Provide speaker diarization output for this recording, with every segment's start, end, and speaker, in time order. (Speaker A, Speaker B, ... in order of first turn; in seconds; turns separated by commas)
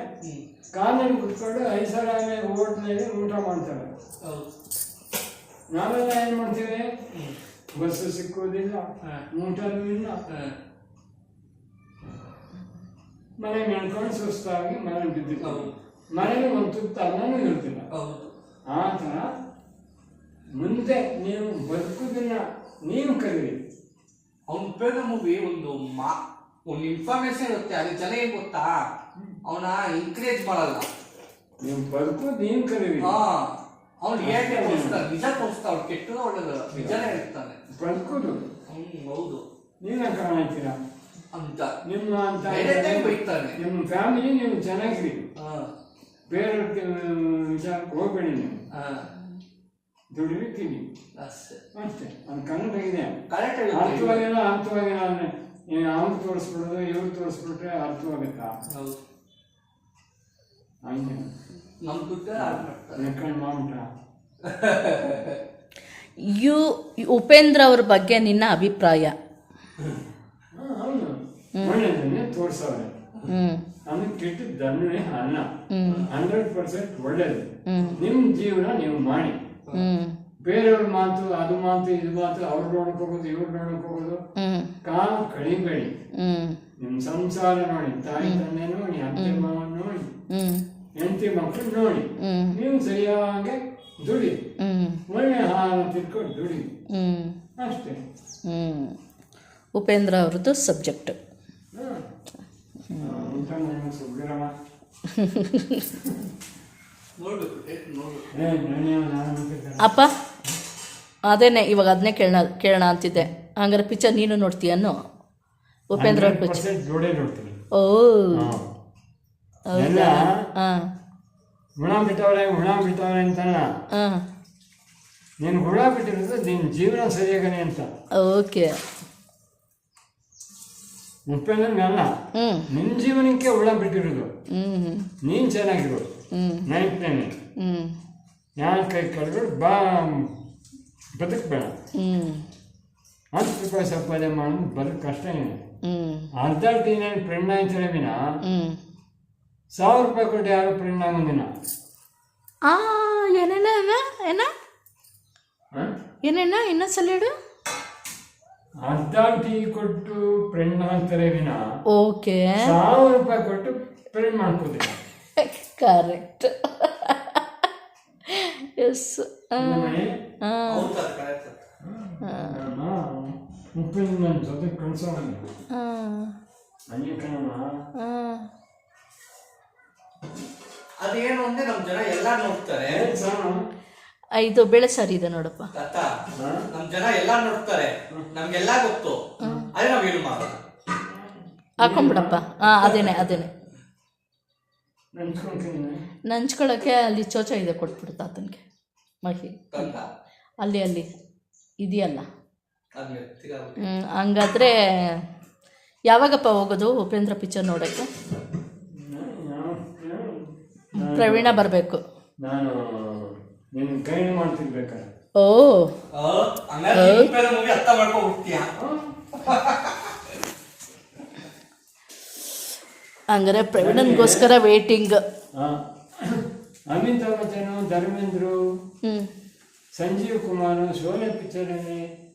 Speaker A: 0.8-3.9, Speaker B: 4.2-4.5, Speaker A: 5.7-6.8, Speaker A: 7.8-10.2, Speaker B: 10.3-10.5, Speaker A: 13.4-17.9, Speaker B: 15.4-15.7, Speaker B: 17.9-18.3, Speaker A: 18.7-19.3, Speaker A: 20.6-23.6, Speaker B: 24.5-28.8, Speaker B: 29.4-30.9, Speaker A: 31.6-33.1, Speaker B: 33.0-33.5, Speaker B: 34.0-37.6, Speaker A: 34.2-35.0, Speaker A: 36.7-37.0, Speaker A: 37.8-38.4, Speaker B: 38.7-39.4, Speaker A: 39.8-40.8, Speaker B: 41.3-41.7, Speaker A: 41.9-45.2, Speaker B: 42.5-43.6, Speaker B: 45.4-45.7, Speaker A: 46.3-48.6, Speaker B: 48.7-49.1, Speaker A: 50.1-50.8, Speaker B: 51.2-51.6, Speaker A: 51.8-53.2, Speaker B: 53.3-54.3, Speaker A: 53.7-58.6, Speaker B: 58.7-59.0, Speaker A: 60.9-61.3, Speaker B: 61.8-63.1, Speaker A: 62.4-63.9, Speaker B: 64.4-65.4, Speaker C: 66.3-69.1, Speaker A: 70.6-72.9, Speaker C: 73.3-73.6, Speaker A: 73.9-75.5, Speaker C: 75.8-76.1, Speaker B: 75.9-76.1, Speaker A: 76.1-79.4, Speaker C: 77.7-78.0, Speaker C: 79.8-80.2, Speaker A: 80.5-84.2, Speaker C: 84.4-84.7, Speaker A: 84.8-85.9, Speaker C: 86.2-86.6, Speaker A: 86.8-90.1, Speaker C: 89.2-89.5, Speaker C: 90.3-90.6, Speaker A: 91.0-94.4, Speaker C: 92.2-92.6, Speaker C: 94.6-95.0, Speaker A: 95.1-96.7, Speaker C: 96.9-97.4, Speaker A: 97.6-98.0, Speaker C: 98.5-99.0, Speaker C: 99.8-101.2, Speaker A: 101.8-102.1, Speaker C: 102.9-103.5, Speaker A: 103.0-104.5, Speaker C: 105.2-105.9, Speaker B: 107.2-108.3, Speaker A: 108.3-110.0, Speaker C: 109.8-110.1, Speaker C: 111.3-115.0, Speaker C: 115.9-116.6, Speaker A: 116.0-117.6, Speaker C: 117.8-118.5, Speaker A: 118.4-118.7, Speaker C: 119.7-120.8, Speaker A: 119.8-120.4, Speaker A: 121.8-123.7, Speaker A: 125.4-127.9, Speaker C: 128.2-128.7, Speaker A: 131.3-132.1, Speaker C: 132.4-132.7, Speaker A: 132.7-134.3, Speaker C: 134.6-135.1, Speaker A: 135.2-136.1, Speaker C: 136.3-136.7, Speaker A: 136.7-137.3, Speaker C: 137.6-138.0, Speaker A: 138.6-140.3, Speaker A: 141.2-141.7, Speaker C: 142.0-142.4, Speaker A: 143.4-145.6, Speaker C: 145.9-146.3, Speaker A: 146.4-148.2, Speaker C: 148.5-148.8, Speaker A: 149.8-151.5, Speaker C: 152.7-154.5, Speaker C: 156.2-157.3, Speaker A: 158.8-161.6, Speaker C: 161.9-162.6, Speaker A: 162.6-165.0, Speaker C: 165.4-167.4, Speaker C: 168.3-170.9, Speaker A: 169.6-170.2, Speaker B: 170.7-171.7, Speaker A: 171.9-175.4, Speaker C: 172.2-172.6, Speaker C: 175.7-176.3, Speaker A: 176.9-177.7, Speaker C: 178.0-178.5, Speaker B: 181.0-183.1, Speaker A: 182.9-183.6, Speaker C: 184.4-185.7, Speaker B: 185.7-186.1, Speaker A: 186.4-186.7, Speaker B: 186.7-190.6, Speaker C: 189.4-189.7, Speaker A: 191.1-192.4, Speaker C: 191.8-193.5, Speaker B: 192.8-193.3, Speaker A: 195.2-196.0, Speaker C: 196.3-198.6, Speaker C: 199.2-199.9, Speaker B: 199.7-200.1, Speaker C: 200.6-201.1, Speaker C: 201.8-202.3, Speaker B: 202.9-203.8, Speaker C: 203.8-204.8, Speaker C: 206.1-208.1, Speaker A: 208.9-211.7, Speaker C: 210.9-212.0, Speaker A: 212.4-215.1, Speaker C: 215.4-215.9, Speaker B: 216.1-218.7, Speaker C: 216.9-217.3, Speaker A: 218.8-219.1, Speaker B: 219.3-220.3, Speaker C: 223.3-225.2, Speaker A: 223.8-224.5, Speaker A: 225.6-228.6, Speaker C: 229.0-229.3, Speaker A: 230.0-232.0